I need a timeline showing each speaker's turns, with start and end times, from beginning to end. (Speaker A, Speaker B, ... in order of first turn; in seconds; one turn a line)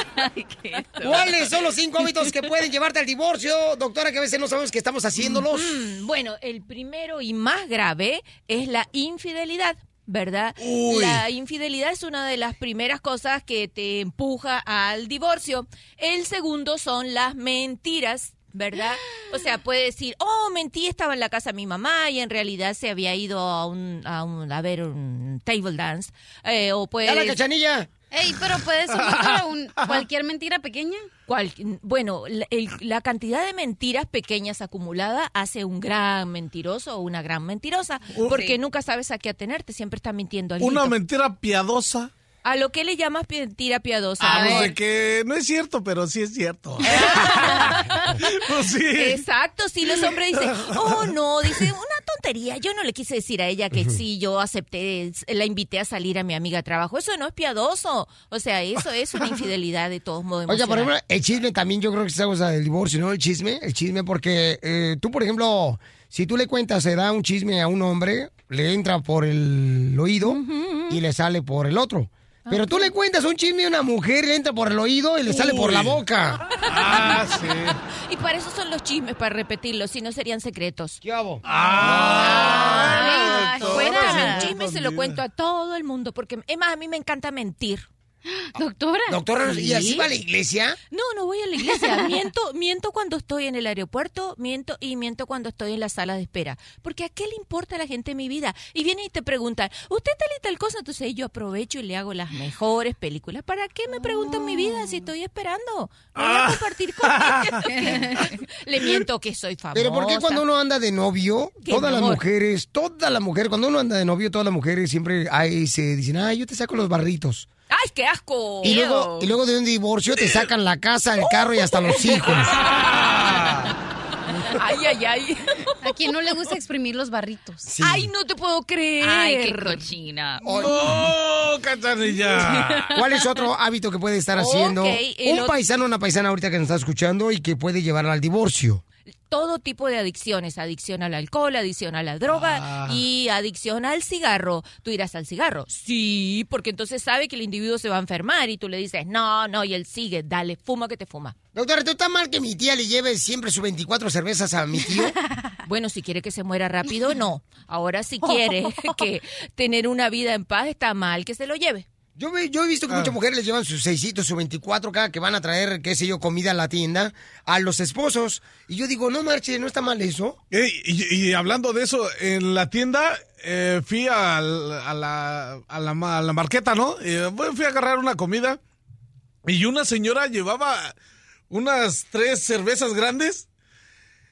Speaker A: 0.1-1.3
Speaker B: 1.0-5.7
Speaker C: 5.4-27.4
Speaker D: 10.6-11.2
Speaker B: 27.0-27.9
Speaker E: 28.1-31.1
Speaker D: 28.9-30.0
Speaker C: 31.3-40.9
Speaker D: 38.1-38.5
Speaker D: 40.6-42.1
Speaker C: 42.4-44.8
Speaker D: 44.2-49.2
Speaker C: 46.8-47.5
Speaker C: 48.9-60.9
Speaker D: 50.4-51.6
Speaker B: 60.5-76.4
Speaker C: 70.2-71.0
Speaker C: 72.5-72.9
Speaker D: 75.3-76.0
Speaker D: 76.7-77.8
Speaker C: 76.9-77.2
Speaker C: 78.1-81.0
Speaker B: 81.0-83.3
Speaker D: 81.4-85.2
Speaker C: 81.8-87.8
Speaker E: 83.0-84.5
Speaker E: 88.3-90.1
Speaker B: 89.1-90.8
Speaker C: 89.7-90.0
Speaker C: 90.9-110.4
Speaker D: 106.2-106.5
Speaker D: 107.1-107.6
Speaker B: 109.7-117.5
Speaker C: 111.6-112.2
Speaker C: 117.7-119.3
Speaker B: 118.6-122.5
Speaker C: 121.2-122.3
Speaker D: 122.6-123.7
Speaker C: 124.5-126.3
Speaker E: 125.8-127.7
Speaker B: 127.7-128.1
Speaker C: 127.8-129.8
Speaker A: 129.0-130.5
Speaker B: 130.4-130.7
Speaker D: 130.6-133.0
Speaker B: 132.9-138.8
Speaker C: 134.3-135.6
Speaker C: 139.3-151.3
Speaker D: 142.3-143.0
Speaker B: 151.5-155.2
Speaker C: 155.7-161.8
Speaker E: 158.2-158.5
Speaker B: 162.2-170.4
Speaker D: 170.5-178.6
Speaker D: 179.4-180.9
Speaker D: 181.5-183.5